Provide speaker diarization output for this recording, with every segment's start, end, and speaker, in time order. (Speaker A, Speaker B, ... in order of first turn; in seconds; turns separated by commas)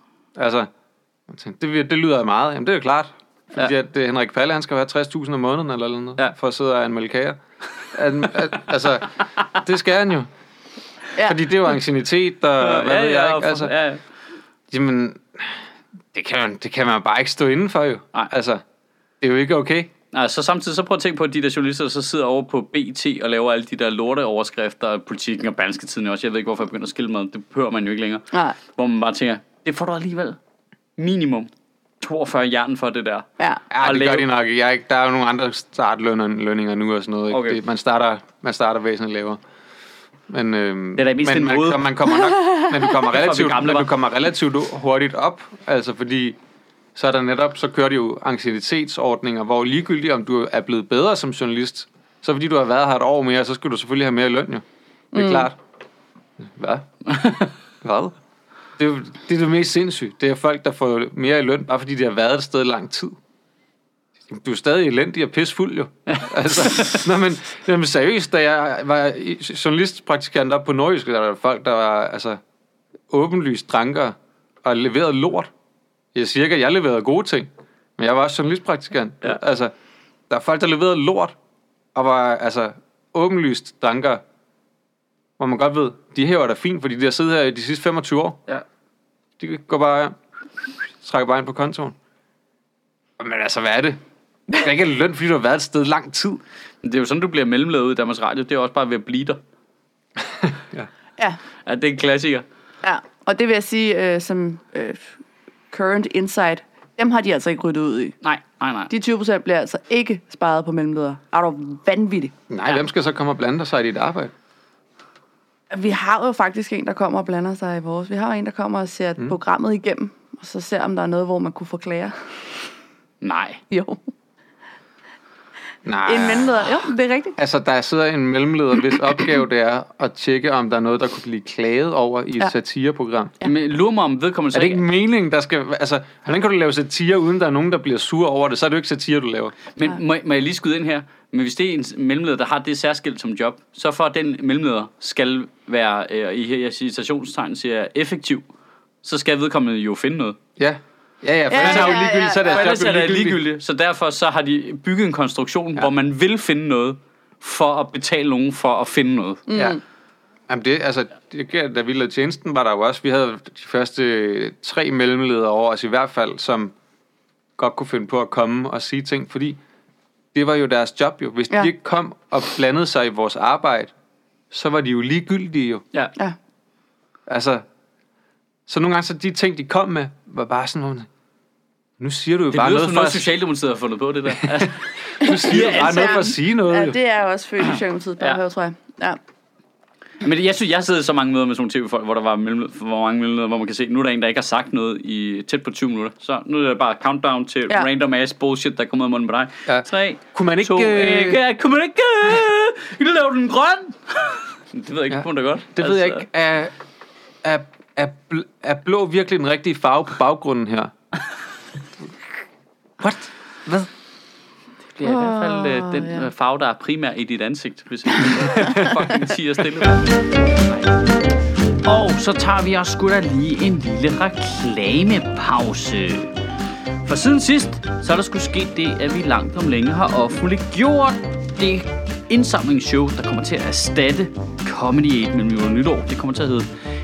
Speaker A: 0.3-0.7, Speaker A: 1.3-7.4, Speaker A: 7.9-10.3, Speaker A: 11.2-13.7, Speaker B: 12.6-14.0, Speaker A: 14.7-15.6, Speaker A: 16.1-18.6, Speaker A: 19.2-19.9, Speaker B: 20.1-30.4, Speaker C: 28.3-28.6, Speaker B: 31.0-33.2, Speaker A: 33.7-39.4, Speaker B: 33.8-34.2, Speaker B: 37.3-37.6, Speaker A: 40.3-46.4, Speaker B: 41.0-41.8, Speaker C: 42.5-42.7, Speaker B: 42.9-43.9, Speaker A: 46.9-55.5, Speaker C: 55.1-55.5, Speaker A: 56.4-56.9, Speaker B: 57.1-57.5, Speaker A: 57.8-58.1, Speaker A: 58.8-63.2, Speaker A: 64.3-72.4, Speaker B: 66.1-67.0, Speaker A: 73.1-75.5, Speaker A: 76.1-79.7, Speaker A: 80.3-81.3, Speaker A: 81.9-84.2, Speaker A: 85.4-88.4, Speaker A: 89.4-90.1, Speaker A: 91.0-91.9, Speaker A: 93.2-94.0, Speaker A: 94.5-96.4, Speaker B: 96.8-99.4, Speaker A: 100.4-100.9, Speaker B: 101.7-102.4, Speaker C: 102.8-105.1, Speaker C: 105.7-108.2, Speaker B: 108.2-108.9, Speaker C: 108.9-112.3, Speaker A: 112.5-114.3, Speaker C: 115.7-122.1, Speaker B: 123.2-123.6, Speaker C: 123.7-124.0, Speaker A: 125.8-133.3, Speaker C: 126.0-127.4, Speaker B: 133.4-134.8, Speaker A: 134.5-139.5, Speaker B: 139.8-148.4, Speaker B: 149.0-150.4, Speaker A: 150.6-153.4, Speaker C: 151.5-152.7, Speaker B: 151.6-159.4, Speaker C: 159.5-159.8, Speaker A: 160.5-166.7, Speaker A: 167.6-169.6, Speaker A: 170.3-173.9, Speaker A: 174.5-175.8, Speaker A: 177.3-177.6, Speaker A: 178.7-181.1, Speaker A: 182.0-183.3, Speaker B: 182.5-186.2, Speaker A: 184.3-187.0, Speaker C: 185.2-189.2, Speaker B: 190.2-206.2, Speaker A: 199.7-201.4, Speaker A: 205.7-206.7, Speaker A: 207.4-210.9, Speaker A: 213.0-213.9, Speaker B: 214.9-220.2, Speaker C: 215.0-216.3, Speaker A: 218.4-218.9, Speaker B: 221.8-226.3, Speaker B: 227.0-236.7